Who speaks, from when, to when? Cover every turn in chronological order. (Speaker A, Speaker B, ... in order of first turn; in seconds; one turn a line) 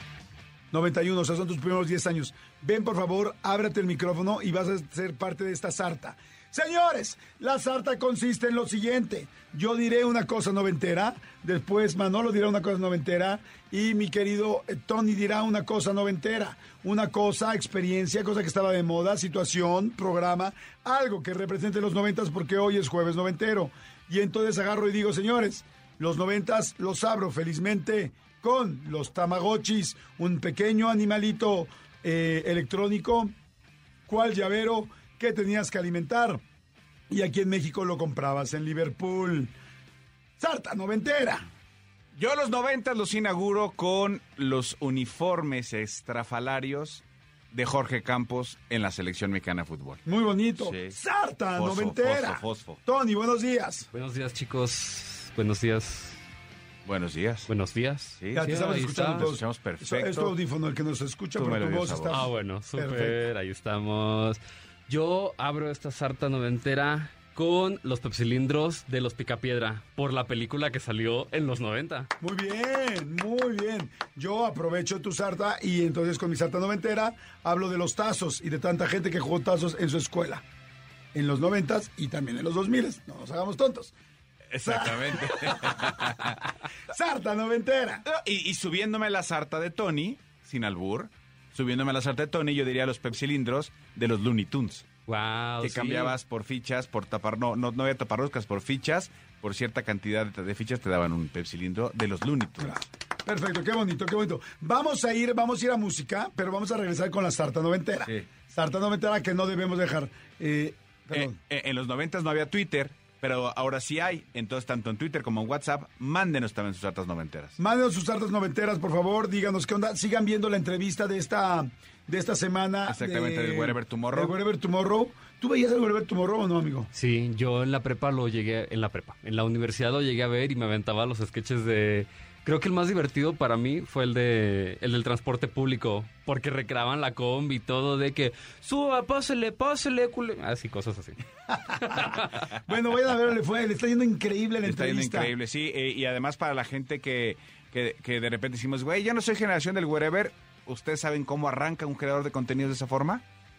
Speaker A: 0.7-33.3
Speaker A: 34.0-36.4
Speaker A: 37.1-39.5
Speaker A: 40.4-41.5
Speaker B: 42.1-50.0
Speaker A: 50.0-53.9
Speaker B: 50.6-51.0
Speaker B: 51.5-52.8
Speaker C: 53.9-56.2
Speaker B: 56.8-57.5
Speaker C: 57.5-59.3
Speaker B: 58.2-58.5
Speaker A: 58.3-63.2
Speaker B: 59.1-60.4
Speaker B: 61.4-62.3
Speaker C: 62.1-72.1
Speaker A: 72.2-80.4
Speaker A: 81.1-83.9
Speaker B: 84.5-86.4
Speaker A: 84.6-85.9
Speaker A: 86.9-88.0
Speaker B: 88.0-94.9
Speaker C: 95.1-96.1
Speaker B: 95.6-102.8
Speaker A: 102.6-111.3
Speaker B: 111.1-117.6
Speaker A: 117.6-126.9
Speaker B: 122.9-124.3
Speaker C: 126.9-141.2
Speaker A: 141.7-145.3
Speaker C: 141.8-142.3
Speaker B: 144.6-153.2